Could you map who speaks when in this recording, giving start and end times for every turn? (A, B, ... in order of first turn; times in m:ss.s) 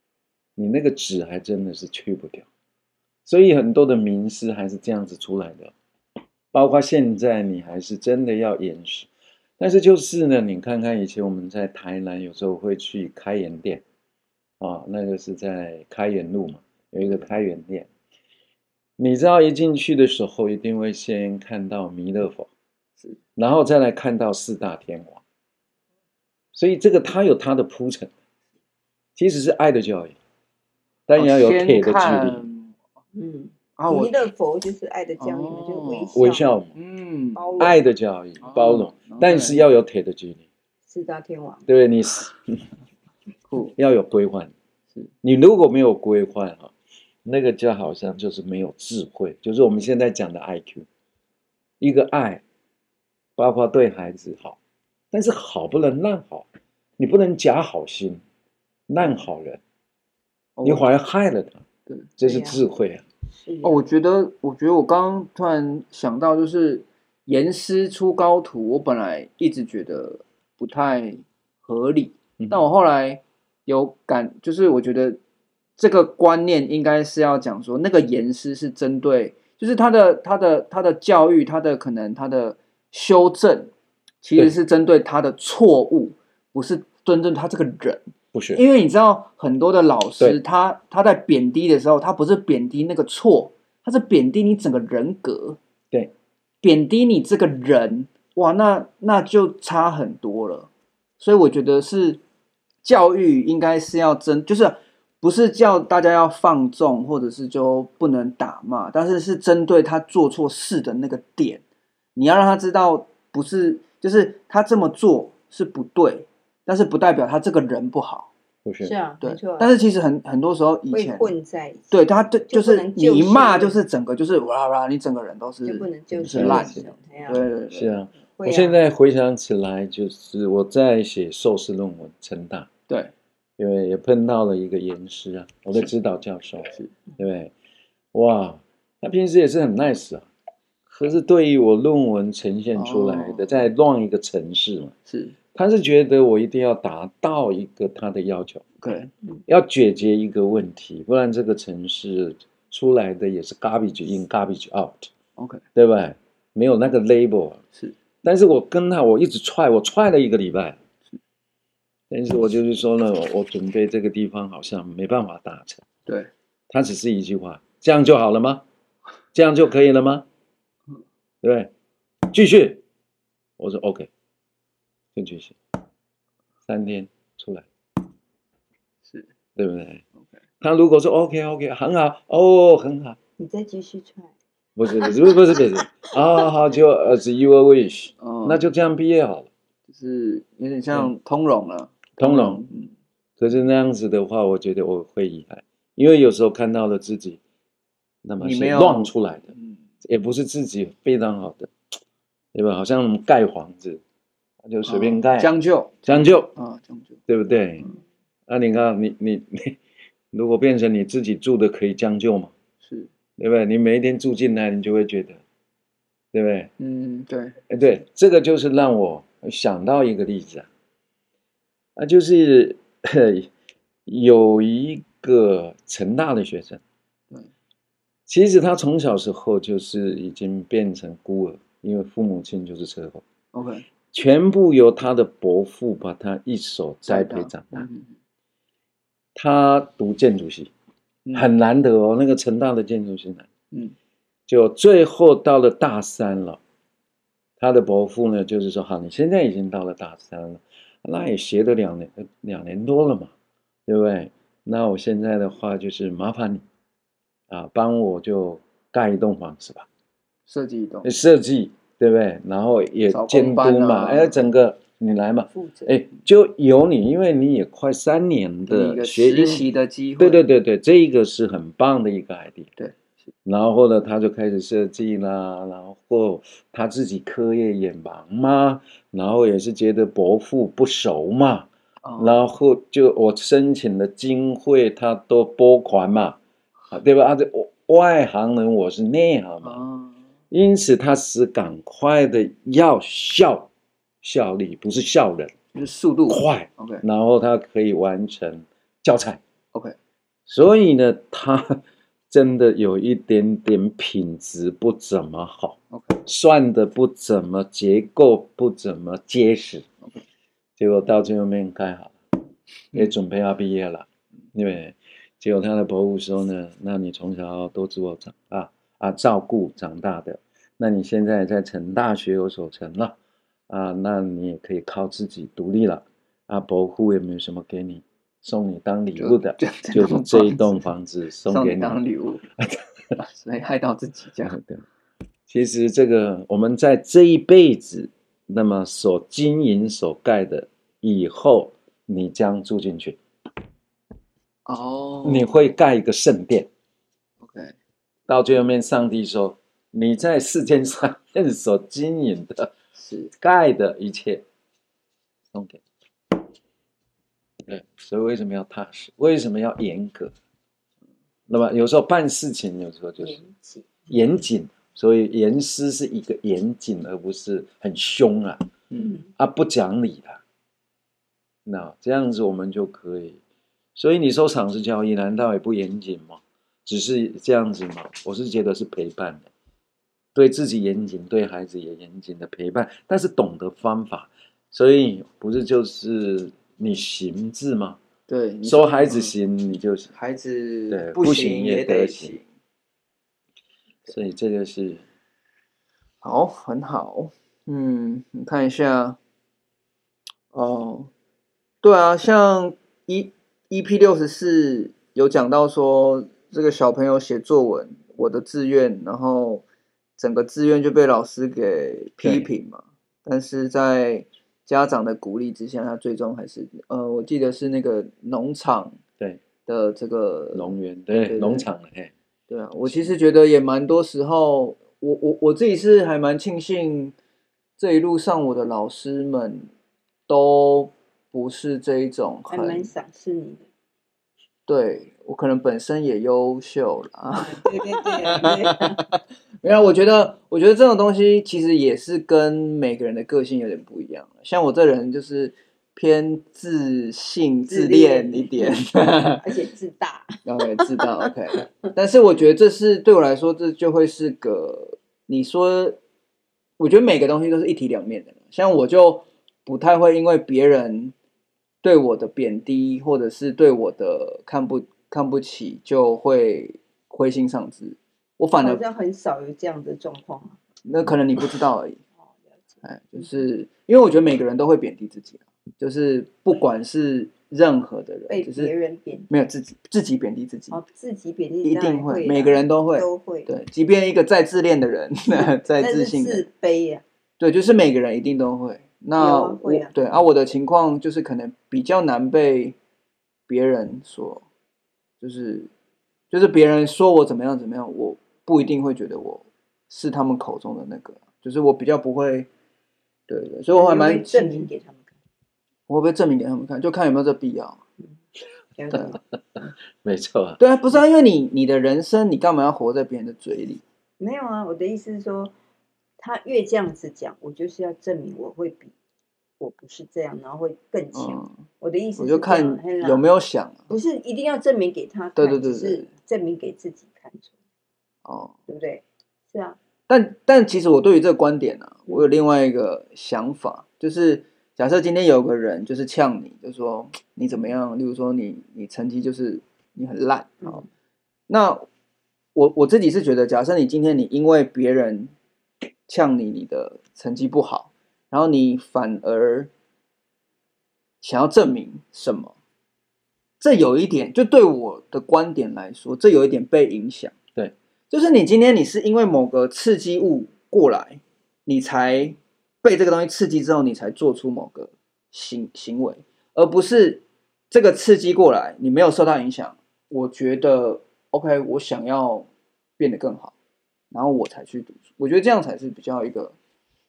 0:00.6-0:02.5 A
0:03.2-0:05.7 A
0:06.5-0:13.8 A
0:14.6-0:17.9 A
0:19.0-0:22.5 A
0:23.4-0:25.2 A
0:26.5-0:28.1 A
0:29.2-0:30.2 A
0:31.1-0:32.4 A
0:31.2-0:32.8 B
0:33.1-0:36.5 C
0:33.8-0:34.2 B
0:35.2-0:36.1 B
0:36.1-0:36.7 A
0:36.7-0:37.7 B
0:37.3-0:37.8 C
0:37.6-0:40.5 A
0:38.4-0:39.6 B
0:40.9-0:41.7 C
0:41.7-0:42.7 A
0:43.5-0:43.7 B
0:43.8-0:44.5 A
0:45.2-0:46.7 A
0:47.2-0:50.8 A
0:51.8-0:52.4 A
0:53.4-0:54.6 A
0:55.1-0:56.4 A
0:57.0-0:58.2 A
0:58.9-0:59.6 A
1:00.6-1:00.9 B
1:00.6-1:01.6 A
1:02.2-1:03.0 A
1:02.2-1:02.6 C
1:03.3-1:03.8 C
1:03.6-1:15.2 B
1:12.4-1:12.6 A
1:15.8-1:35.6 B
1:28.3-1:28.6 A
1:36.6-1:42.2 B
1:42.8-1:51.6 B
1:52.1-1:58.3 B
1:58.6-1:58.9 A
1:58.8-1:59.7 C
1:59.2-2:01.3 B
2:00.9-2:01.9 C
2:01.9-2:08.0 B
2:02.5-2:03.8 C
2:05.6-2:07.4 C
2:06.2-2:06.8 A
2:07.7-2:12.7 A
2:08.4-2:08.8 C
2:13.6-2:17.5 A
2:18.1-2:20.3 A
2:20.9-2:24.9 A
2:22.7-2:23.6 B
2:25.1-2:25.4 B
2:25.5-2:28.7 A
2:28.8-2:29.1 B
2:29.5-2:35.1 A
2:35.4-2:35.6 B
2:35.7-2:37.6 A
2:38.2-2:40.8 A
2:42.1-2:45.8 A
2:46.7-2:48.6 A
2:49.3-2:50.2 A
2:51.4-2:51.7 A
2:52.2-2:52.8 A
2:53.6-2:54.1 A
2:55.1-2:55.6 A
2:56.6-2:57.7 A
2:59.0-2:59.3 B
2:59.6-3:00.0 A
3:00.6-3:03.2 A
3:03.4-3:04.3 C
3:04.8-3:09.5 A
3:05.0-3:06.2 C
3:08.2-3:08.6 B
3:09.9-3:12.9 B
3:12.2-3:12.6 A
3:13.4-3:17.4 A
3:18.2-3:21.7 A
3:18.4-3:19.8 B
3:22.5-3:24.0 A
3:24.6-3:25.5 A
3:24.8-3:27.2 B
3:26.1-3:26.5 A
3:27.3-3:27.9 A
3:28.5-3:29.8 A
3:30.3-3:32.5 A
3:32.8-3:33.1 B
3:33.4-3:35.4 A
3:36.3-3:36.7 A
3:36.8-3:37.6 B
3:37.7-3:40.7 A
3:42.0-3:43.5 A
3:44.0-3:46.8 A
3:48.3-3:53.2 A
3:53.5-3:53.8 B
3:54.1-3:57.9 A
3:57.1-3:58.1 B
3:59.3-4:00.7 A
4:01.2-4:01.5 B
4:01.3-4:03.5 A
4:04.5-4:06.6 A
4:07.6-4:13.3 A
4:13.9-4:16.6 A
4:17.5-4:19.9 A
4:20.5-4:21.1 B
4:21.0-4:29.7 A
4:23.1-4:24.5 B
4:25.5-4:26.0 C
4:28.7-4:30.4 B
4:30.2-4:32.7 A
4:33.4-4:46.4 A
4:42.0-4:42.4 B
4:46.9-4:49.8 A
4:49.6-4:50.2 B
4:50.5-4:53.7 A
4:54.2-4:55.5 A
4:55.7-4:57.0 B
4:56.3-4:59.4 A
5:00.5-5:09.8 A
5:05.9-5:06.2 B
5:10.8-5:12.1 A
5:12.9-5:23.2 A
5:23.7-5:32.0 A
5:29.2-5:30.8 B
5:31.5-5:32.4 B
5:32.6-5:33.1 A
5:33.2-5:34.6 B
5:34.5-5:34.8 A
5:35.5-5:43.2 A
5:44.6-5:45.6 B
5:45.2-5:46.7 A
5:47.4-5:47.7 B
5:48.3-5:52.7 A
5:53.0-5:53.3 B
5:53.3-5:54.4 A
5:55.5-5:55.8 A
5:57.6-6:00.3 A
6:01.5-6:03.4 A
6:03.2-6:04.0 C
6:04.1-6:08.6 A
6:09.0-6:09.3 C
6:09.4-6:10.4 A
6:11.6-6:13.4 A
6:13.9-6:19.5 A
6:20.3-6:28.0 A
6:28.3-6:29.3 B
6:28.6-6:30.1 A
6:30.1-6:32.4 B
6:30.9-6:32.4 A
6:34.1-6:35.0 A
6:36.2-6:39.2 B
6:40.5-6:41.1 B
6:41.8-6:49.6 B
6:50.2-6:59.0 B
6:52.2-6:52.5 A
6:59.6-7:01.7 B
7:00.5-7:02.1 A
7:02.5-7:07.1 B
7:02.8-7:03.1 A
7:07.8-7:09.7 B
7:10.3-7:12.9 B
7:12.5-7:13.6 C
7:14.7-7:29.4 B
7:17.3-7:19.0 C
7:27.7-7:31.1 C
7:30.4-7:36.0 B
7:36.8-7:41.1 B
7:41.8-7:48.8 B
7:48.6-7:50.6 C
7:50.8-7:52.0 B
7:52.7-7:53.2 C
7:52.8-7:58.7 B
7:58.3-7:59.3 C
7:59.3-8:00.8 B
8:00.7-8:03.5 C
8:01.6-8:06.4 B
8:05.3-8:07.0 C
8:07.4-8:12.8 B
8:09.2-8:09.9 C
8:13.5-8:14.4 B
8:15.2-8:15.7 B
8:16.3-8:22.5 B
8:23.3-8:24.7 B
8:23.7-8:25.1 C
8:25.9-8:27.8 B
8:28.8-8:29.2 C
8:30.0-8:30.6 A
8:30.6-8:33.8 B
8:34.2-8:35.5 C
8:36.2-8:38.9 C
8:39.6-8:43.2 C
8:41.1-8:41.6 B
8:42.2-8:43.9 B
8:43.9-8:47.5 C
8:45.4-8:46.1 B
8:48.2-8:48.5 B
8:48.7-8:49.8 C
8:50.1-9:00.8 B
9:01.5-9:01.9 B
9:02.5-9:05.3 B
9:06.1-9:09.7 B
9:11.2-9:12.5 B
9:13.6-9:17.4 B
9:18.1-9:32.5 B
9:33.0-9:33.5 B
9:34.1-9:36.6 B